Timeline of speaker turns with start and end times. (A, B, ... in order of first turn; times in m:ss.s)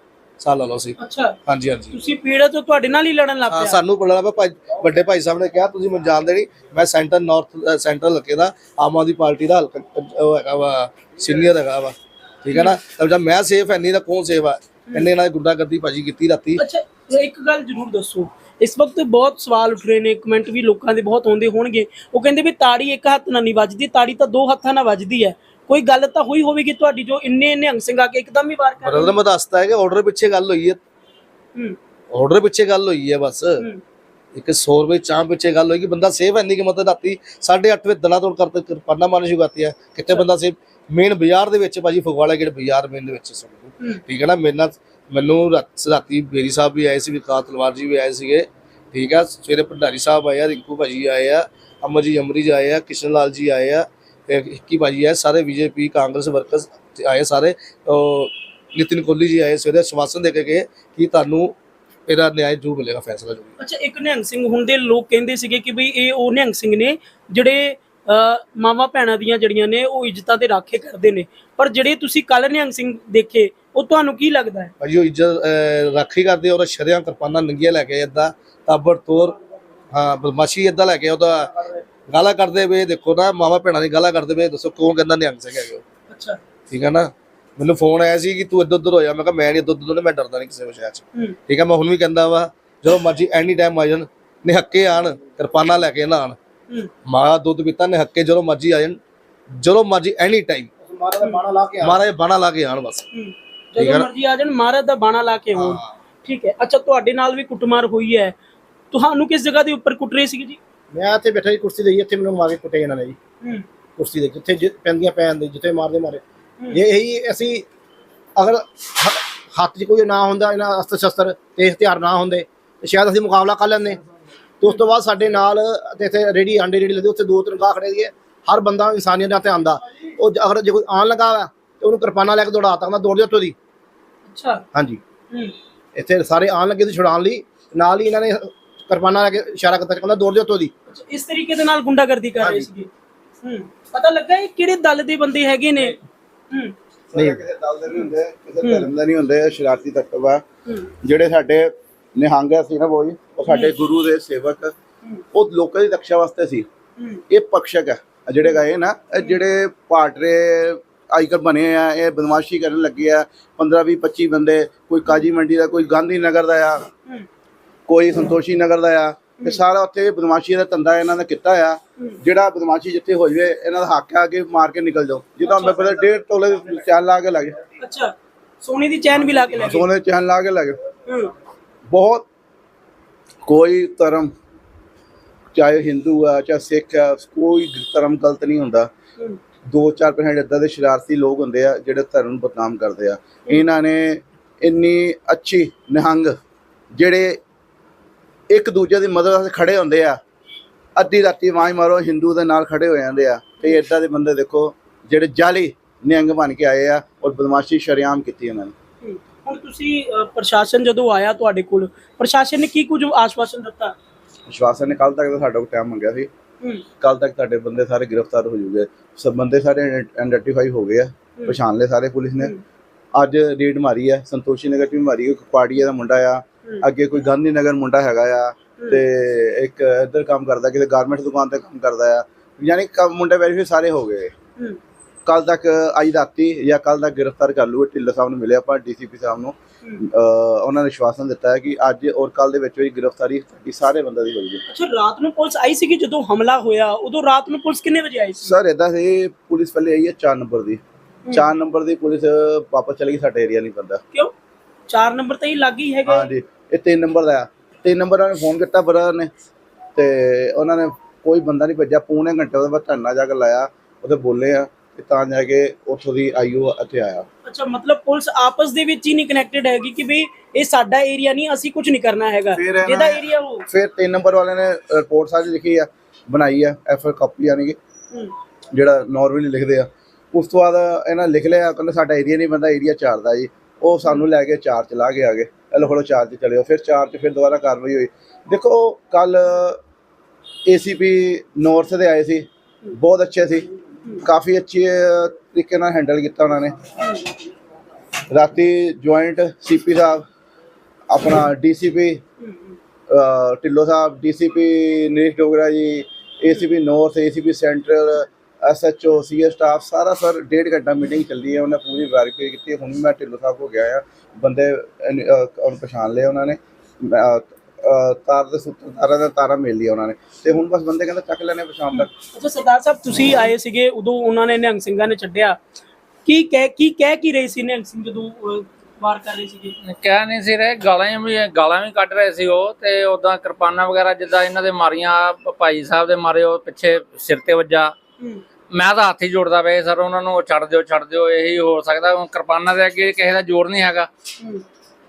0:00.4-0:01.9 A
0:01.0-0:01.4 B
0:01.9-0:03.8 B
0:03.5-0:16.6 A
0:16.6-0:29.2 B
0:28.8-0:30.8 A
0:32.1-0:33.6 A
0:34.3-1:03.5 A
1:03.6-1:14.7 B
1:14.8-1:19.4 A
1:19.9-1:25.8 A
1:26.1-1:26.4 B
1:26.7-1:36.4 A
1:37.0-1:39.0 A
1:39.6-1:40.7 A
1:40.8-1:42.0 C
1:41.8-1:43.0 A
1:43.1-1:48.3 B
1:43.8-1:44.1 A
1:45.6-1:45.9 A
1:48.9-1:50.6 B
1:50.9-1:53.2 C
1:54.0-1:57.6 C
1:58.4-2:04.0 C
2:04.6-2:13.5 C
2:14.3-2:14.6 B
2:14.7-2:15.0 C
2:16.0-2:20.7 C
2:20.9-2:22.9 B
2:23.4-2:26.0 B
2:27.1-2:30.4 D
2:27.2-2:27.4 C
2:31.0-2:34.7 D
2:33.5-2:33.7 B
2:35.3-2:36.7 D
2:37.0-2:37.2 B
2:37.3-2:46.9 D
2:47.9-2:57.6 D
2:55.4-2:56.0 B
2:57.8-2:59.8 B
2:59.2-3:00.8 D
3:01.1-3:01.3 B
3:01.9-3:02.2 D
3:03.4-3:04.3 D
3:05.5-3:08.9 D
3:09.7-3:16.4 D
3:16.9-3:17.4 D
3:18.5-3:20.2 D
3:21.0-3:28.7 D
3:29.0-3:33.9 B
3:34.5-3:36.3 D
3:37.0-3:42.5 D
3:43.1-3:54.3 D
3:55.2-4:04.6 D
4:04.7-4:08.5 B
4:08.4-4:14.0 D
4:14.9-4:16.3 B
4:16.0-4:19.3 D
4:20.0-4:27.2 D
4:27.4-4:33.6 B
4:32.5-4:37.8 D
4:38.7-4:49.8 D
4:50.6-4:53.7 D
4:54.2-4:56.8 D
4:57.0-4:57.2 B
4:58.3-5:00.2 D
5:01.1-5:02.2 D
5:02.4-5:02.8 B
5:03.1-5:22.1 D
5:21.9-5:25.6 B
5:26.2-5:29.8 B
5:29.8-5:37.9 E
5:38.7-5:44.1 E